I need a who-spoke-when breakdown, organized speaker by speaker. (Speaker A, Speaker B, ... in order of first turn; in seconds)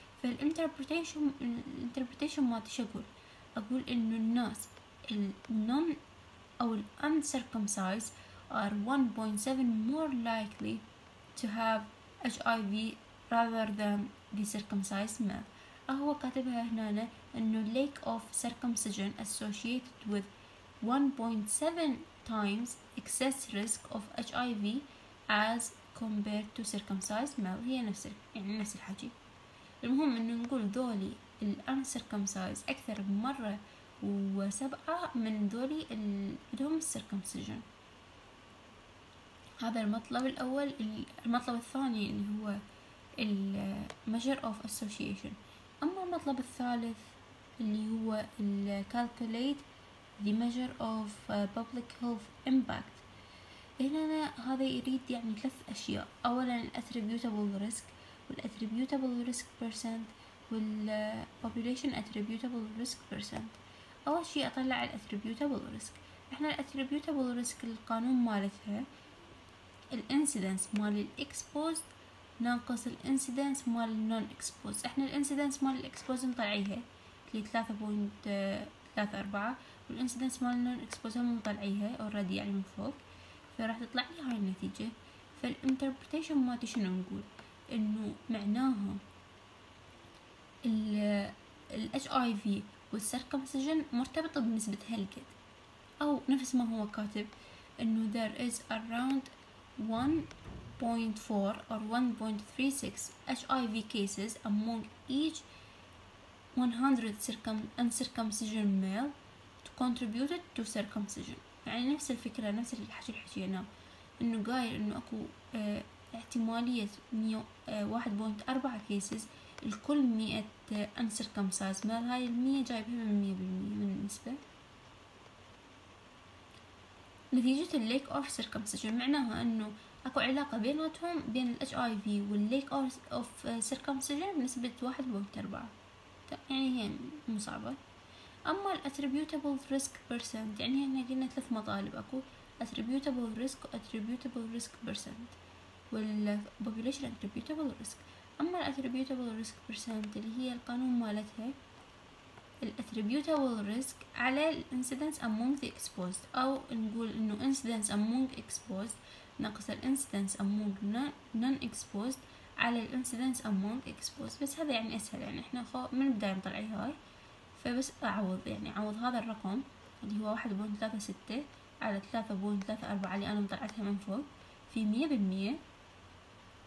Speaker A: 0.2-6.0, 6.6-20.3, 20.8-29.1, 29.8-37.6, 39.6-42.6, 43.2-49.6, 50.2-53.0, 53.8-63.5, 64.1-68.8, 69.9-71.9, 72.4-83.0, 83.5-89.0, 90.6-95.3, 96.0-105.5, 106.5-113.7, 114.2-124.4, 127.3-135.7, 136.3-137.8, 138.5-145.4, 145.9-151.6, 152.6-166.9, 167.5-175.6